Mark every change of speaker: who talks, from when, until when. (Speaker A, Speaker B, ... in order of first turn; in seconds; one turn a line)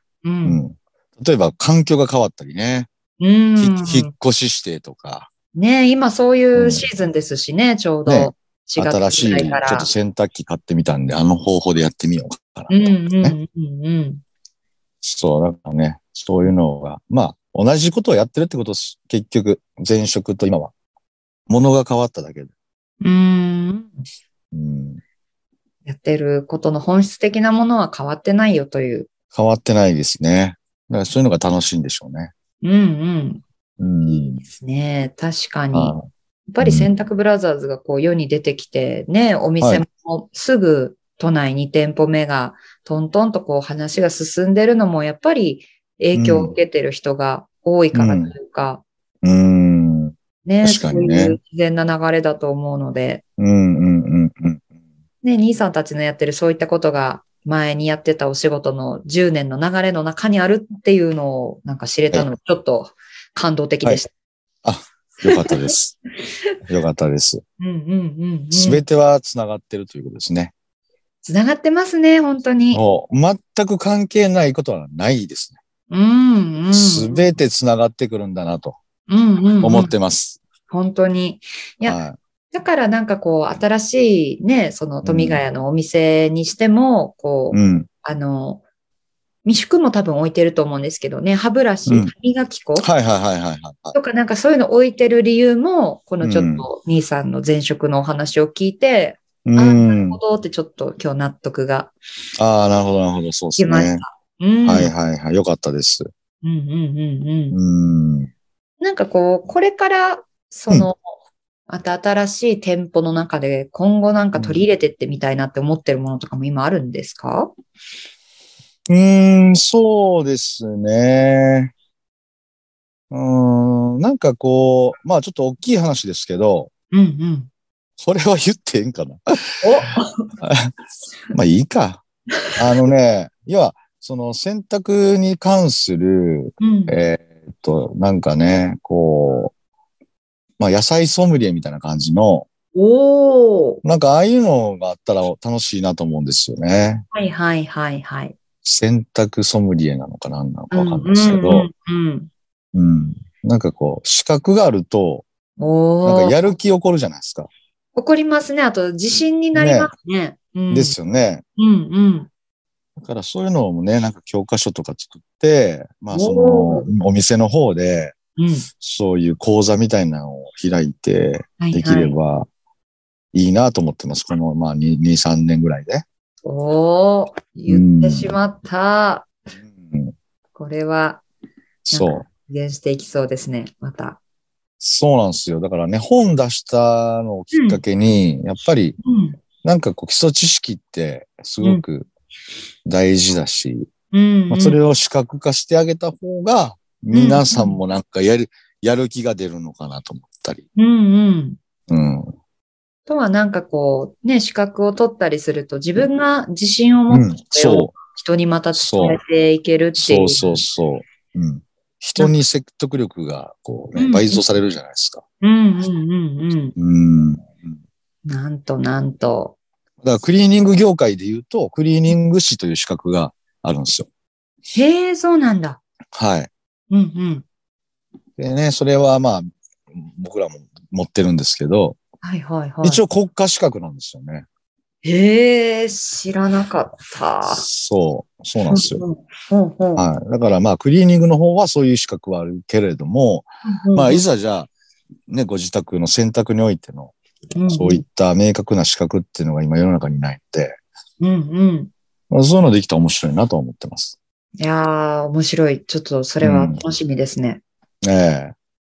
Speaker A: 0.2-0.6
Speaker B: 0.5-2.9
Speaker A: 3.2-4.1
Speaker B: 3.6-5.3
Speaker A: 5.5-9.9
Speaker B: 6.5-6.9
Speaker B: 8.1-13.4
Speaker A: 12.7-14.2
Speaker B: 15.0-20.7
Speaker B: 21.5-22.5
Speaker A: 23.0-24.0
Speaker B: 24.5-25.0
Speaker A: 25.9-29.1
Speaker B: 29.3-32.3
Speaker A: 32.6-33.4
Speaker B: 33.8-34.4
Speaker A: 34.0-36.0
Speaker B: 35.7-36.1
Speaker A: 36.5-48.8
Speaker B: 36.6-36.9
Speaker B: 46.1-46.5
Speaker B: 47.9-48.4
Speaker B: 49.2-51.4
Speaker A: 50.5-53.2
Speaker B: 53.4-54.6
Speaker A: 55.2-64.1
Speaker B: 64.6-66.0
Speaker A: 65.2-65.7
Speaker A: 66.3-66.5
Speaker B: 66.7-67.4
Speaker A: 67.6-68.9
Speaker B: 68.5-70.5
Speaker A: 71.2-72.8
Speaker B: 72.7-75.6
Speaker A: 75.9-77.4
Speaker B: 76.7-78.8
Speaker A: 79.1-79.9
Speaker B: 79.6-80.4
Speaker A: 80.7-88.6
Speaker B: 81.8-82.2
Speaker B: 85.0-85.4
Speaker B: 87.5-87.9
Speaker A: 89.5-92.9
Speaker B: 91.9-92.1
Speaker B: 92.8-94.0
Speaker A: 93.9-101.9
Speaker B: 96.2-96.7
Speaker B: 99.5-100.2
Speaker B: 102.4-104.0
Speaker A: 103.6-104.9
Speaker B: 104.7-106.1
Speaker A: 106.4-107.6
Speaker B: 107.5-108.3
Speaker A: 108.8-111.1
Speaker A: 111.7-117.5
Speaker B: 114.3-114.6
Speaker B: 118.9-121.7
Speaker B: 123.1-126.7
Speaker A: 126.9-127.5
Speaker B: 128.0-129.6
Speaker A: 129.6-130.3
Speaker B: 130.4-130.7
Speaker B: 131.3-132.0
Speaker B: 132.6-139.5
Speaker A: 136.6-137.0
Speaker B: 140.6-142.5
Speaker A: 142.7-143.8
Speaker B: 143.8-147.1
Speaker A: 147.1-148.4
Speaker B: 148.6-151.7
Speaker A: 150.7-152.3
Speaker B: 152.7-155.2
Speaker A: 155.6-156.4
Speaker B: 156.1-157.5
Speaker A: 157.9-161.0
Speaker B: 159.5-159.9
Speaker B: 160.7-161.4
Speaker A: 161.6-162.3
Speaker B: 163.0-168.2
Speaker A: 166.1-166.9
Speaker A: 168.4-168.7
Speaker B: 168.8-172.5
Speaker A: 171.6-172.2
Speaker B: 173.3-176.0
Speaker A: 176.4-179.3
Speaker B: 177.7-178.4
Speaker B: 179.7-180.2
Speaker A: 180.5-181.2
Speaker B: 181.9-182.2
Speaker A: 181.9-184.2
Speaker B: 184.8-189.0
Speaker A: 187.5-187.8
Speaker A: 189.0-189.4
Speaker B: 189.6-192.1
Speaker B: 192.9-193.9
Speaker A: 194.1-194.8
Speaker B: 194.5-200.7
Speaker A: 197.1-197.8
Speaker A: 200.8-201.6
Speaker B: 201.9-202.3
Speaker A: 203.1-210.7
Speaker B: 207.1-208.0
Speaker B: 208.7-209.2
Speaker B: 210.0-215.2
Speaker A: 213.9-214.4
Speaker A: 215.4-216.8
Speaker B: 216.8-217.8
Speaker A: 218.3-219.6
Speaker B: 220.0-224.1
Speaker A: 224.7-225.8
Speaker B: 226.1-226.5
Speaker A: 226.9-227.4
Speaker B: 228.4-232.0
Speaker A: 232.2-233.0
Speaker B: 232.8-234.5
Speaker A: 235.0-237.7
Speaker B: 237.4-239.0
Speaker A: 238.7-240.1
Speaker B: 240.0-244.7
Speaker A: 243.7-244.2
Speaker B: 245.3-247.1
Speaker A: 247.6-248.0
Speaker B: 247.7-250.8
Speaker A: 251.2-251.9
Speaker B: 252.3-254.2
Speaker A: 254.6-257.6
Speaker B: 256.4-256.8
Speaker B: 258.0-258.6